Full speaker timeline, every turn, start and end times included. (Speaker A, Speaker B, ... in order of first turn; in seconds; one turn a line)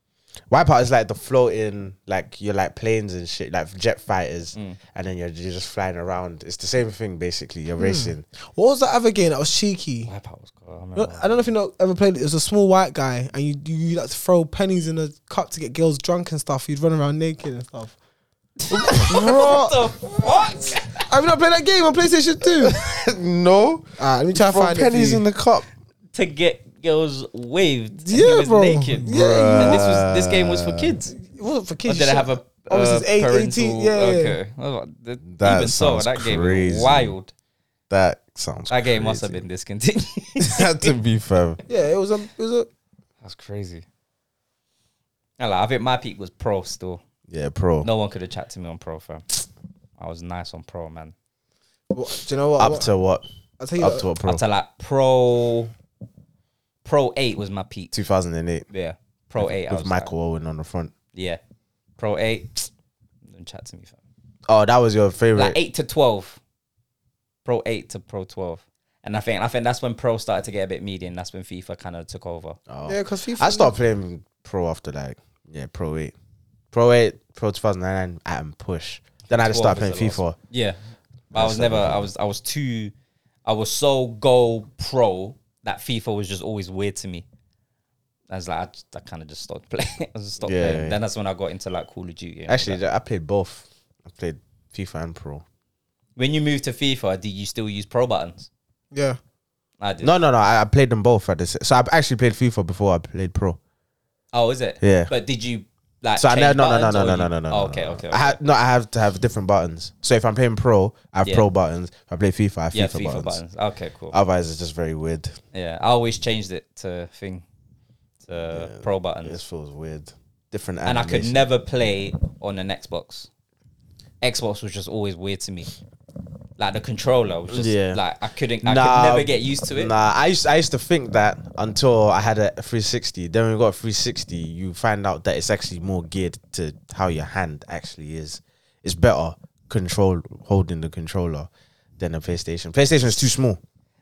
Speaker A: 0.5-8.2
Speaker B: 4.5-4.8
Speaker C: 7.8-10.1
Speaker B: 10.1-11.3
Speaker C: 10.9-17.9
Speaker B: 18.6-21.1
Speaker C: 18.9-19.9
Speaker C: 20.8-22.8
Speaker A: 22.6-25.7
Speaker C: 24.0-25.2
Speaker B: 26.1-31.1
Speaker C: 28.0-29.9
Speaker A: 29.1-30.9
Speaker C: 31.2-34.4
Speaker B: 31.9-37.3
Speaker A: 35.3-37.1
Speaker A: 37.9-39.4
Speaker B: 38.7-40.9
Speaker A: 40.4-41.6
Speaker C: 41.7-42.7
Speaker B: 43.2-43.8
Speaker B: 45.4-47.0
Speaker A: 47.3-47.9
Speaker B: 47.8-49.2
Speaker B: 50.0-51.1
Speaker C: 51.9-52.9
Speaker A: 52.6-53.2
Speaker C: 53.6-54.0
Speaker A: 53.8-54.4
Speaker B: 54.2-55.7
Speaker B: 56.8-57.9
Speaker A: 57.9-58.7
Speaker B: 58.7-60.1
Speaker A: 59.4-60.9
Speaker B: 61.1-61.4
Speaker B: 62.0-62.7
Speaker B: 63.2-64.0
Speaker A: 64.5-65.6
Speaker B: 65.3-66.4
Speaker B: 67.4-72.6
Speaker A: 72.7-76.1
Speaker C: 72.8-73.7
Speaker A: 76.7-80.4
Speaker B: 79.3-80.8
Speaker A: 81.3-82.1
Speaker B: 81.3-82.9
Speaker B: 83.4-87.2
Speaker B: 88.3-92.8
Speaker A: 90.4-91.0
Speaker A: 92.5-95.4
Speaker B: 96.2-98.5
Speaker C: 98.9-99.2
Speaker B: 99.8-100.1
Speaker A: 100.0-103.6
Speaker B: 104.3-108.4
Speaker A: 104.8-105.1
Speaker A: 106.2-113.4
Speaker B: 112.7-114.2
Speaker A: 114.1-115.3
Speaker B: 115.5-117.4
Speaker B: 118.2-119.4
Speaker A: 118.5-121.5
Speaker B: 120.8-123.3
Speaker B: 124.2-125.7
Speaker B: 126.6-129.9
Speaker A: 127.5-128.0
Speaker A: 128.6-143.6